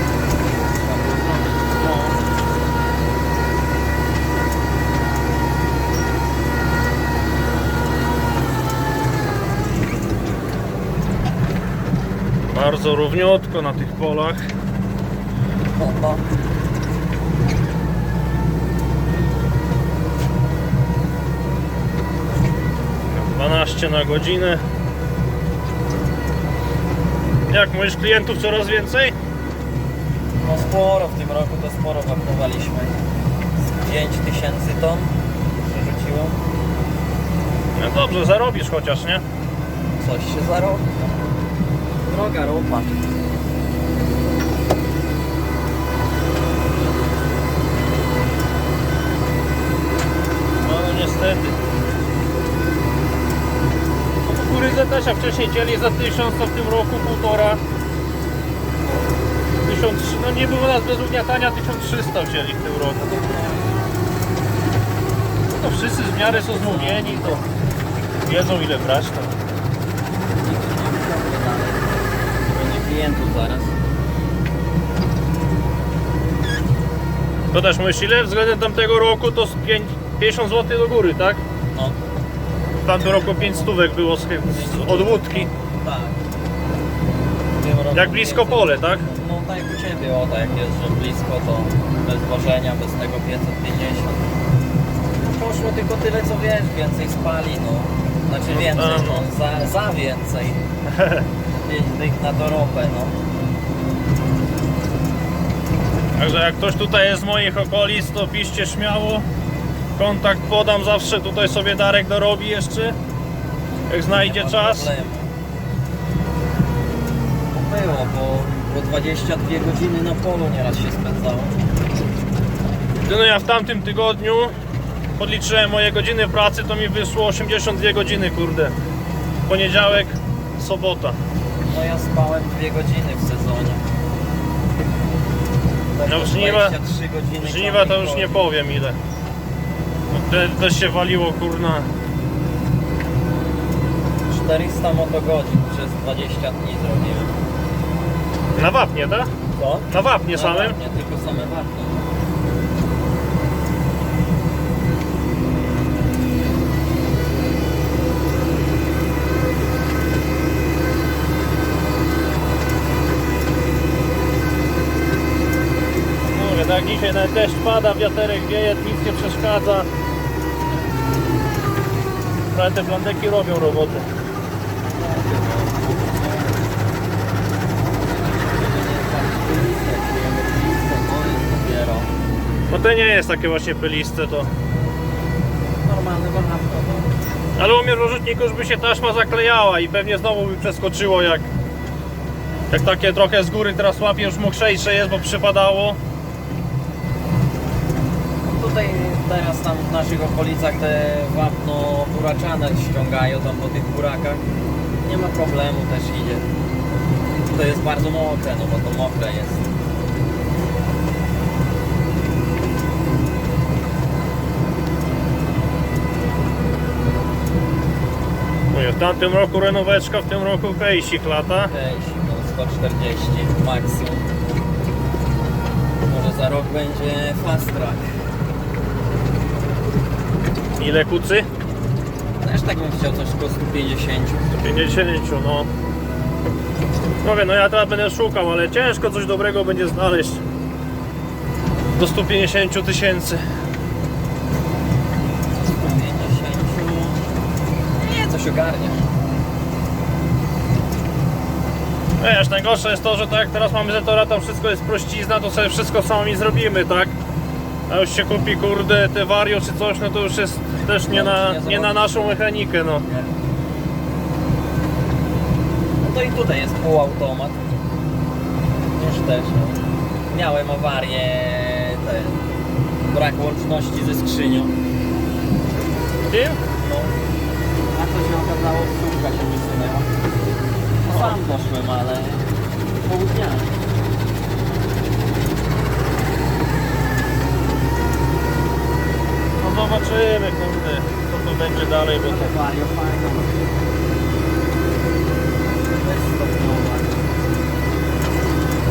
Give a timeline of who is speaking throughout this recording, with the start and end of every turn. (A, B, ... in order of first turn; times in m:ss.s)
0:00.6-0:01.8 A
0:01.8-0:02.2 B
0:12.5-0:14.4 B
0:15.7-0:16.2 A
0:23.1-0:24.6 B
0:27.5-0:29.2 B
0:30.4-0:33.0 A
0:33.6-0:36.4 A
0:37.7-0:39.2 B
0:40.0-0:41.0 A
0:42.1-0:43.0 A
0:50.6-0:51.6 B
0:54.2-0:57.6 B
0:59.6-1:03.0 B
1:03.0-1:03.8 A
1:05.5-1:07.4 B
1:06.2-1:07.4 A
1:08.2-1:09.3 B
1:10.4-1:13.8 A
1:17.5-1:21.4 B
1:21.7-1:22.0 A
1:22.8-1:25.5 B
1:23.3-1:26.2 A
1:27.6-1:34.3 A
1:27.9-1:29.0 B
1:35.1-1:40.6 A
1:38.5-1:39.3 B
1:40.9-1:41.2 B
1:41.5-1:43.2 A
1:46.2-1:49.2 B
1:50.0-1:53.0 B
1:53.9-1:54.9 B
1:54.1-1:55.3 A
1:57.5-2:01.6 A
2:03.0-2:04.5 B
2:05.2-2:08.8 B
2:09.5-2:11.2 B
2:11.7-2:13.8 A
2:15.9-2:18.4 A
2:16.0-2:16.8 B
2:17.4-2:19.0 B
2:20.1-2:21.9 B
2:24.3-2:27.4 A
2:28.6-2:29.3 B
2:29.6-2:32.0 A
2:29.9-2:30.8 B
2:46.2-2:49.9 B
2:52.5-2:54.1 B
2:54.9-2:56.7 A
2:58.4-3:02.1 A
3:02.7-3:04.5 B
3:05.8-3:07.1 A
3:07.6-3:11.5 B
3:12.7-3:16.0 B
3:18.5-3:24.4 A
3:25.0-3:26.5 A
3:27.5-3:29.6 A
3:38.7-3:41.7 B
3:41.7-3:44.3 A
3:46.0-3:48.1 A
3:50.8-3:51.5 B
3:52.4-3:54.5 A
3:54.5-3:55.7 B
3:57.2-4:00.4 B
4:01.9-4:03.4 B
4:05.7-4:07.2 A
4:07.9-4:09.0 A
4:12.2-4:17.1 B
4:17.9-4:23.0 B
4:21.1-4:22.5 A
4:23.1-4:23.3 A
4:26.0-4:27.6 A
4:28.9-4:32.4 A
4:33.1-4:34.7 A
4:36.3-4:36.6 B
4:36.8-4:37.1 A
4:37.9-4:40.1 A
4:41.0-4:42.5 A
4:41.1-4:41.4 B
4:43.0-4:43.7 A
4:49.6-4:52.5 B
4:52.1-4:53.6 A
4:55.9-4:57.3 A